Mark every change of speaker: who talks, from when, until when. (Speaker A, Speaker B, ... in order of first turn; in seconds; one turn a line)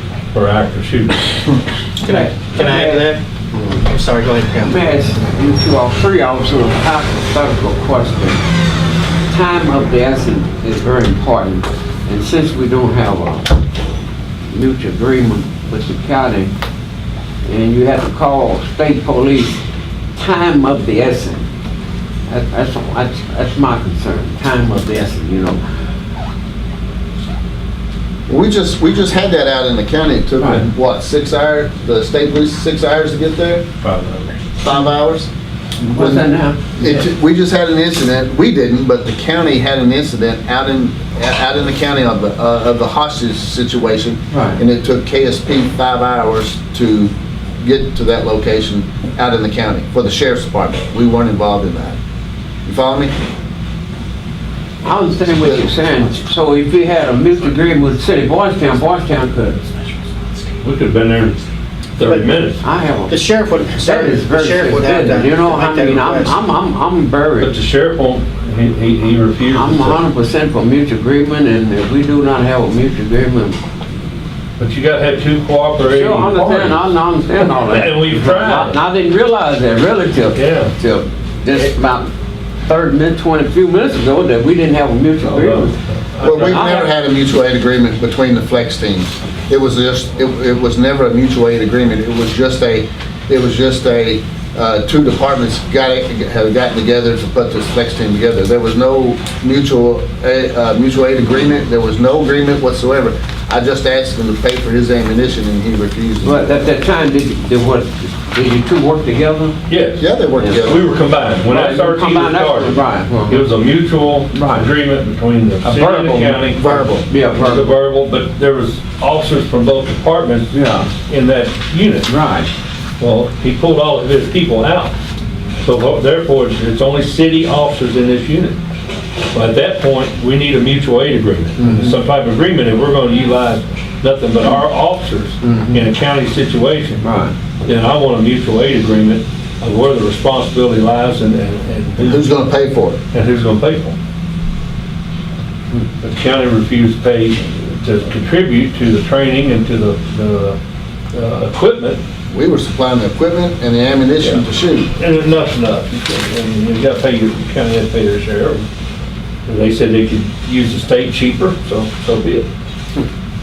Speaker A: 0.3-1.3
Speaker B: 2.0-3.2
Speaker C: 2.0-3.8
Speaker B: 3.8-4.8
Speaker C: 4.6-8.4
Speaker C: 9.3-13.6
Speaker C: 14.5-16.5
Speaker C: 17.5-19.6
Speaker C: 20.2-21.5
Speaker C: 22.3-25.6
Speaker D: 28.3-33.6
Speaker C: 30.4-30.7
Speaker A: 33.8-34.3
Speaker D: 34.6-35.3
Speaker C: 35.8-36.6
Speaker D: 35.9-52.0
Speaker C: 44.3-44.6
Speaker D: 52.6-53.1
Speaker C: 54.8-59.7
Speaker A: 60.6-61.4
Speaker A: 62.0-62.6
Speaker C: 62.6-63.2
Speaker B: 63.1-66.4
Speaker C: 63.8-67.5
Speaker A: 67.4-70.0
Speaker C: 69.5-73.6
Speaker A: 74.6-76.9
Speaker C: 75.8-82.1
Speaker A: 77.4-78.8
Speaker A: 80.3-80.7
Speaker C: 82.7-86.9
Speaker A: 85.2-86.3
Speaker D: 86.2-106.7
Speaker C: 106.2-109.6
Speaker A: 109.7-110.0
Speaker D: 110.0-110.8
Speaker C: 110.4-110.7
Speaker A: 110.6-122.1
Speaker C: 111.4-113.5
Speaker C: 114.3-114.7
Speaker C: 115.6-117.8
Speaker D: 116.6-116.9
Speaker C: 120.5-120.9
Speaker C: 122.1-122.5
Speaker A: 123.0-124.9
Speaker A: 125.6-128.6
Speaker A: 129.3-137.1
Speaker C: 131.6-132.0
Speaker C: 135.4-135.9
Speaker C: 137.0-137.3
Speaker A: 137.7-142.3
Speaker D: 142.0-143.0
Speaker A: 143.1-143.9
Speaker A: 146.0-150.6
Speaker A: 151.1-152.0
Speaker D: 152.3-154.9
Speaker A: 155.0-158.7
Speaker A: 159.5-162.5